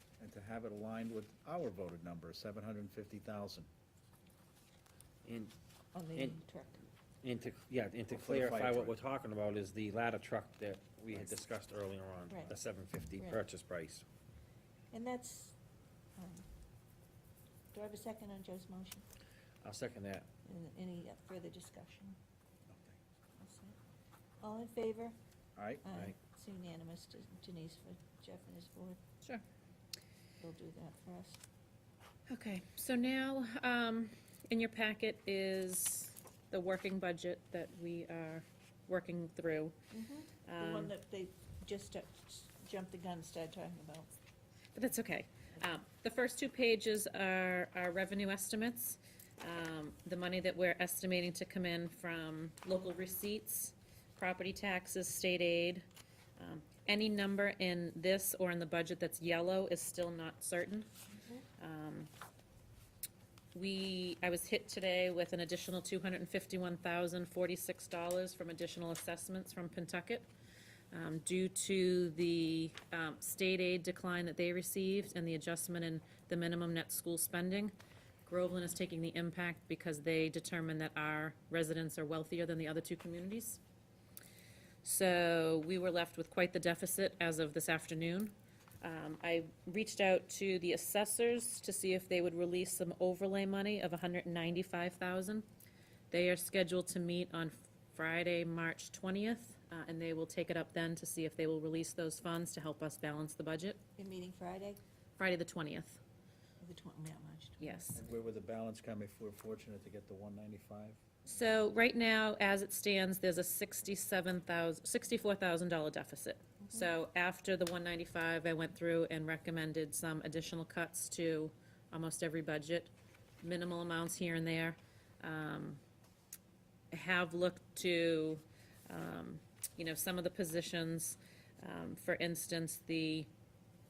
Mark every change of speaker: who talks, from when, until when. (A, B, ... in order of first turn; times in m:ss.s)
0:00.2-0:03.7 A
0:05.2-0:05.5 B
0:05.9-0:06.8 C
0:06.1-0:06.4 B
0:07.2-0:14.0 B
0:08.1-0:09.0 A
0:12.3-0:12.6 C
0:14.9-0:15.5 C
0:16.2-0:16.4 C
0:17.7-0:19.0 C
0:19.6-0:20.3 B
0:20.4-0:22.2 C
0:22.7-0:23.0 A
0:23.4-0:23.8 C
0:24.4-0:25.1 C
0:25.6-0:25.8 A
0:25.8-0:29.0 C
0:30.4-0:31.4 C
0:32.3-0:39.7 D
0:39.9-0:44.1 C
0:40.4-0:40.9 D
0:44.7-0:55.8 D
0:56.4-1:00.9 D
1:01.6-1:02.1 D
1:03.5-1:10.3 D
1:10.9-1:17.7 D
1:18.2-1:23.6 D
1:24.8-1:35.4 D
1:36.1-1:43.8 D
1:44.0-1:44.8 C
1:45.2-1:46.0 D
1:46.6-1:47.8 C
1:47.6-1:48.0 D
1:47.9-1:51.0 A
1:51.2-2:05.8 D
1:56.6-1:56.9 C
2:06.9-2:13.3 D